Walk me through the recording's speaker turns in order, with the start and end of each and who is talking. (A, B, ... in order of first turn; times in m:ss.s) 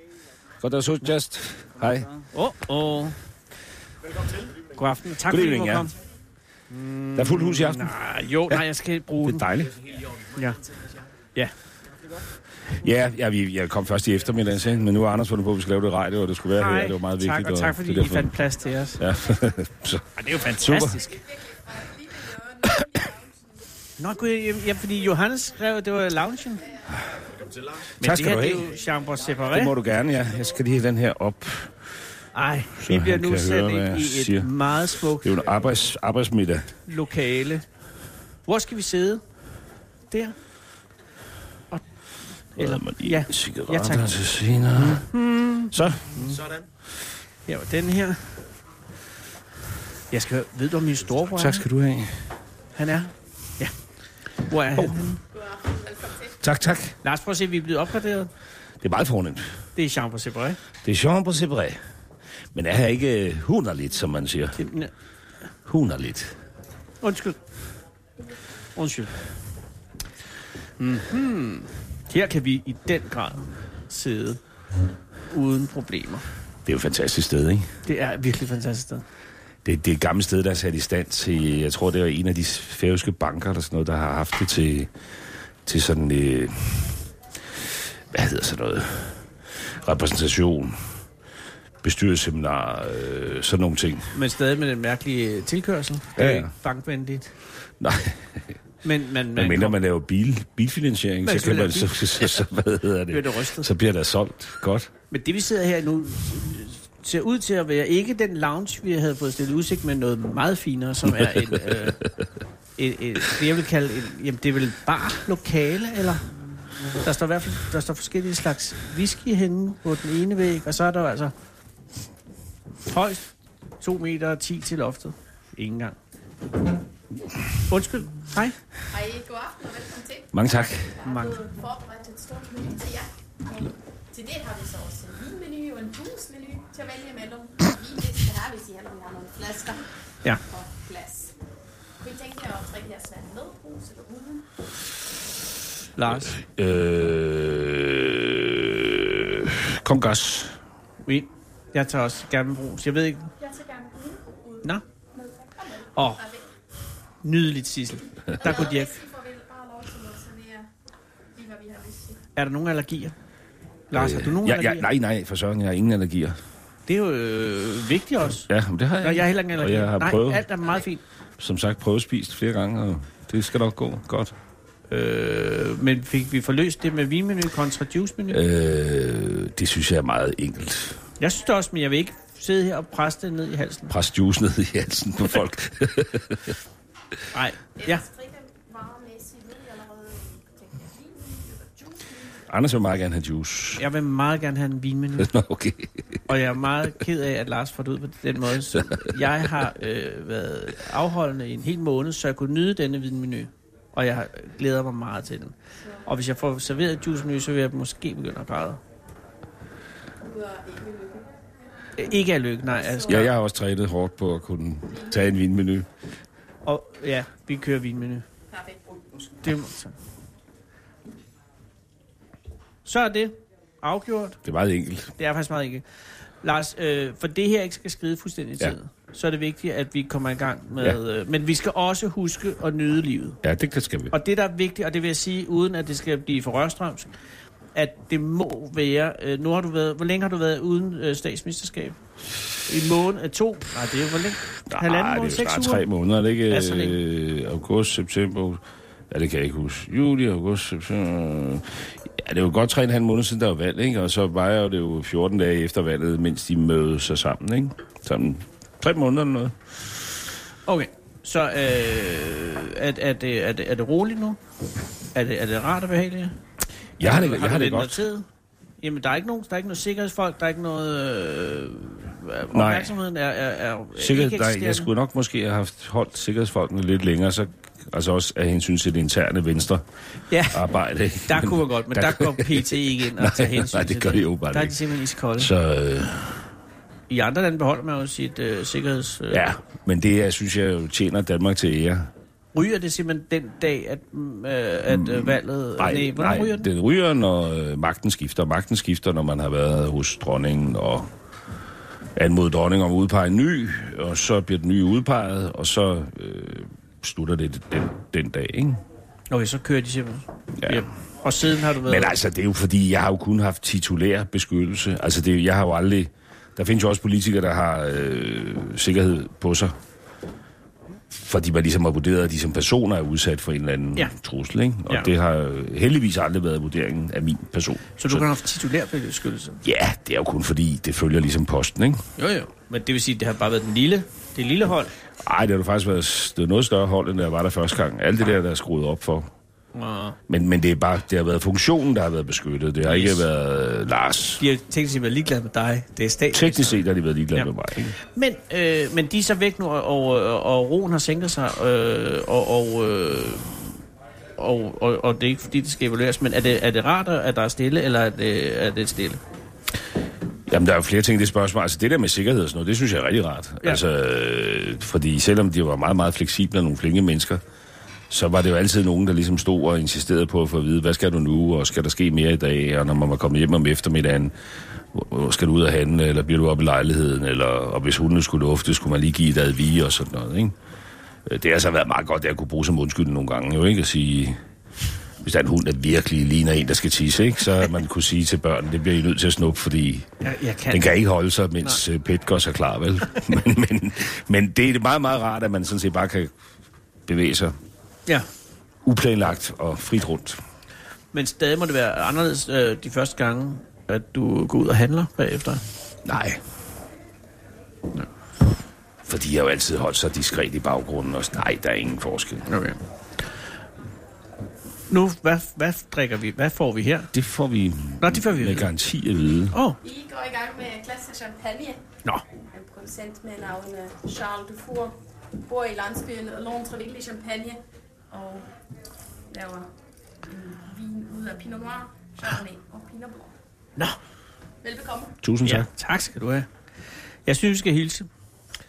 0:00.6-0:02.1 A
0:02.3-0:03.2 B
0:04.7-0:05.9 B
0:05.3-0:05.9 A
0:06.7-0:09.6 B
0:07.2-0:08.0 A
0:09.2-0:09.8 A
0:10.3-0:10.6 B
0:12.7-0:18.4 A
0:16.6-0:19.0 B
0:19.0-0:21.0 A
0:20.2-0:21.2 B
0:20.9-0:23.2 C
0:22.6-0:22.9 A
0:24.0-0:26.7 B
0:26.9-0:27.2 A
0:28.0-0:28.7 A
0:28.0-0:29.8 B
0:29.5-0:31.8 A
0:32.4-0:35.5 B
0:32.8-0:34.5 A
0:35.2-0:36.7 A
0:36.9-0:37.6 B
0:38.5-0:39.2 B
0:40.1-0:40.4 B
0:42.6-0:44.2 B
0:42.6-0:45.1 A
0:44.8-0:46.4 B
0:45.7-0:46.4 A
0:47.5-0:48.4 B
0:50.1-0:51.6 B
0:51.3-0:52.3 A
0:52.8-0:53.7 B
0:54.4-0:55.2 B
0:55.3-0:56.3 C
0:56.4-0:57.0 A
0:57.0-0:58.3 B
0:58.8-0:59.5 A
0:59.8-1:00.6 B
1:00.8-1:01.8 A
1:02.5-1:04.6 A
1:04.6-1:04.9 B
1:05.7-1:06.3 A
1:07.0-1:07.4 B
1:08.8-1:09.1 B
1:10.8-1:14.4 B
1:15.3-1:16.2 B
1:16.7-1:17.7 A
1:17.9-1:19.0 B
1:19.6-1:24.9 A
1:25.6-1:27.0 A
1:28.1-1:30.8 A
1:31.8-1:34.2 A
1:34.1-1:37.3 B
1:36.2-1:36.5 A
1:37.8-1:38.4 A
1:38.8-1:39.8 B
1:39.3-1:44.9 A
1:41.2-1:42.4 B
1:43.1-1:43.7 B
1:45.1-1:52.0 B
1:52.8-1:56.3 B
1:57.0-2:01.3 B
2:02.9-2:06.0 B
2:07.7-2:08.6 B
2:08.9-2:21.3 C
2:10.3-2:11.0 A
2:11.0-2:11.4 B
2:22.0-2:24.5 C
2:26.0-2:26.4 B
2:26.1-2:30.6 A
2:31.0-2:33.3 B
2:33.4-2:36.5 C
2:36.0-2:36.2 B
2:37.2-2:39.0 B
2:38.3-2:40.7 C
2:41.3-2:42.2 C
2:42.4-2:43.2 B
2:43.9-2:44.9 B
2:43.9-2:46.4 A
2:46.9-2:48.5 B
2:48.5-2:50.5 A
2:49.0-2:51.0 B
2:51.4-2:54.4 A
2:54.9-2:58.4 B
2:58.3-3:01.0 A
3:01.2-3:03.9 B
3:03.9-3:06.6 A
3:07.3-3:08.0 B
3:07.8-3:12.4 C
3:12.5-3:13.9 A
3:13.8-3:15.3 B
3:15.2-3:16.2 A
3:16.3-3:28.8 B
3:18.8-3:19.1 A
3:30.2-3:31.3 C
3:32.0-3:33.3 B
3:32.8-3:33.1 C
3:33.1-3:35.9 A
3:36.6-3:38.3 B
3:38.5-3:39.0 C
3:39.4-3:39.9 B
3:42.8-3:44.4 B
3:44.4-3:45.1 A
3:45.2-3:45.8 B
3:46.4-3:53.4 B
3:53.4-3:54.1 A
3:54.1-3:57.1 B
3:57.8-4:02.0 B
4:02.7-4:05.9 B
4:04.7-4:19.6 A
4:06.5-4:07.0 B
4:20.7-4:24.4 B
4:25.1-4:26.4 B
4:27.0-4:28.0 A
4:27.0-4:28.3 B
4:28.8-4:34.9 B
4:32.5-4:33.0 A
4:34.0-4:39.8 A
4:40.3-4:40.6 B
4:40.5-4:44.8 A
4:41.3-4:45.5 B
4:45.4-4:46.5 A
4:47.1-4:49.5 B
4:49.3-4:52.1 A
4:52.5-4:56.7 B
4:54.9-5:01.1 A
5:02.2-5:08.8 A
5:09.3-5:12.2 B
5:10.6-5:10.9 A
5:11.8-5:19.8 A
5:21.1-5:28.3 A
5:28.0-5:29.6 B
5:29.6-5:32.0 A
5:32.2-5:34.9 B
5:35.2-5:39.3 A
5:39.8-5:40.2 B
5:40.3-5:44.4 A
5:42.8-5:43.2 B
5:44.4-5:46.8 B
5:46.3-5:48.0 A
5:47.3-5:53.7 B
5:54.4-5:59.2 B
6:00.5-6:07.4 A
6:08.1-6:20.6 A
6:21.2-6:24.4 A
6:25.2-6:30.1 A
6:30.2-6:31.0 B
6:30.7-6:36.3 A
6:37.1-6:37.6 A
6:38.8-6:40.4 A
6:41.1-6:45.6 B
6:46.0-6:46.4 A
6:49.0-6:52.5 A
6:52.5-6:52.8 B
6:54.9-6:57.1 B
6:57.1-6:59.6 A
6:58.0-6:58.7 B
6:59.5-6:59.8 B
6:59.8-7:01.8 C
7:02.5-7:08.5 C
7:09.3-7:09.7 C
7:10.3-7:13.3 C
7:14.6-7:15.2 C
7:15.2-7:15.7 A
7:15.4-7:16.5 B
7:17.3-7:18.1 B